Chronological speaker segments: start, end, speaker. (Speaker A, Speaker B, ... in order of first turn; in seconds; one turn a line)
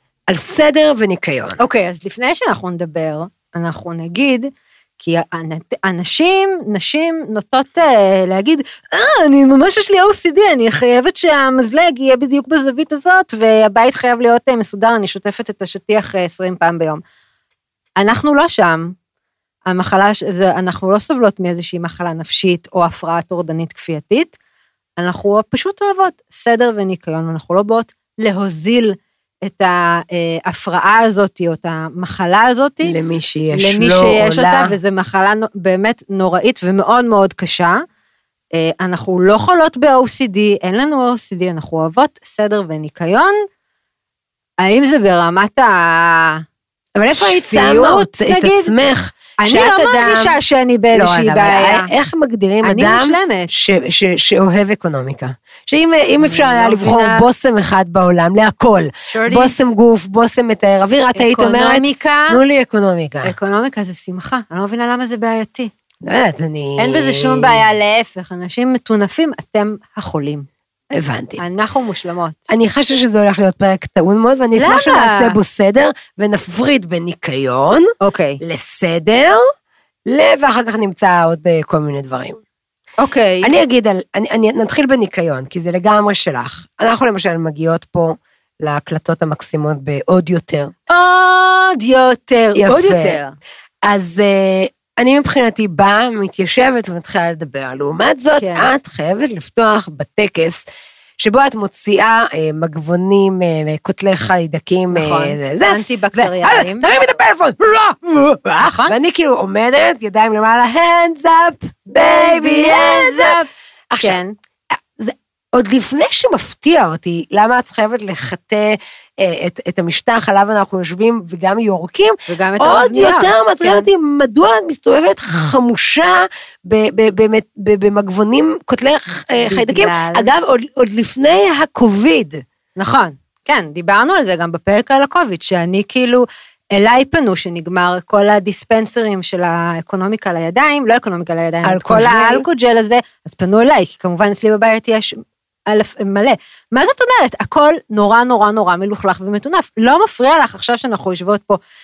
Speaker A: 0.3-1.6
Speaker B: 1.6-17.0
Speaker B: 18.0-18.9
Speaker B: 19.7-24.3
Speaker B: 25.0-33.0
Speaker A: 32.8-34.7
Speaker B: 33.5-37.8
Speaker B: 38.5-43.4
Speaker B: 44.6-46.4
Speaker A: 47.0-50.4
Speaker B: 47.2-48.8
Speaker B: 49.4-51.9
Speaker A: 50.9-63.3
Speaker B: 52.6-53.5
Speaker B: 56.2-57.3
Speaker B: 59.1-59.5
Speaker B: 61.2-62.4
Speaker B: 63.2-65.7
Speaker A: 66.0-67.6
Speaker B: 66.8-70.5
Speaker A: 70.9-71.4
Speaker B: 71.4-72.5
Speaker A: 72.5-79.4
Speaker B: 74.6-75.4
Speaker B: 78.0-78.4
Speaker A: 80.1-82.4
Speaker B: 83.0-83.5
Speaker A: 83.4-90.7
Speaker B: 90.9-93.4
Speaker A: 92.6-93.2
Speaker A: 93.8-100.7
Speaker B: 98.3-98.7
Speaker A: 101.2-113.4
Speaker B: 104.9-106.9
Speaker B: 108.6-109.0
Speaker B: 112.0-113.5
Speaker A: 113.9-114.2
Speaker B: 114.0-114.3
Speaker A: 115.0-132.4
Speaker B: 122.3-123.9
Speaker B: 129.3-130.3
Speaker B: 132.8-145.2
Speaker A: 141.7-142.5
Speaker B: 145.7-151.6